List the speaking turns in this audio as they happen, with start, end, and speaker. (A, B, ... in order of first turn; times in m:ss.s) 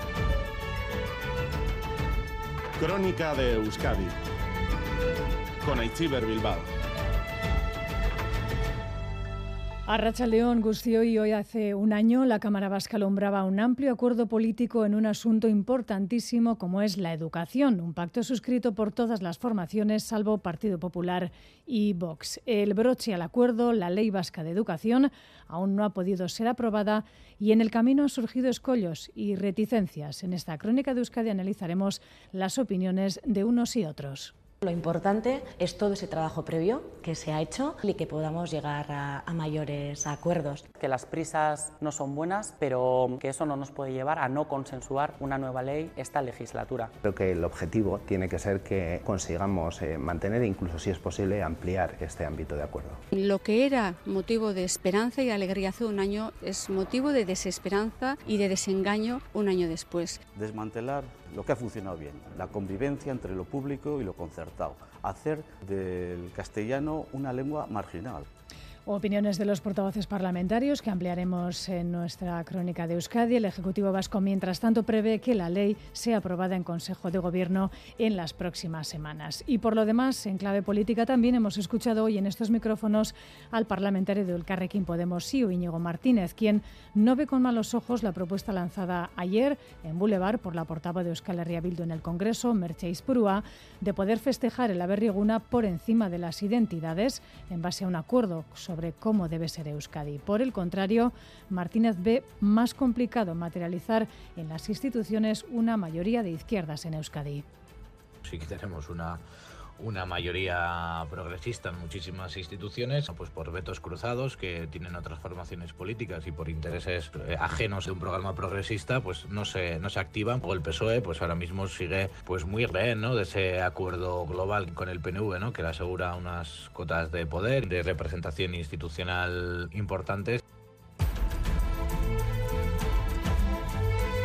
0:02.8-0:04.2 A
0:05.6-0:06.7 A
0:09.9-0:34.3 B
0:34.6-0:40.6 C
0:40.8-0:46.9 D
0:47.0-0:53.0 E
0:53.1-1:00.2 F
1:00.3-1:08.3 G
1:08.9-1:47.4 B
1:48.2-1:49.2 H
1:49.8-2:10.4 H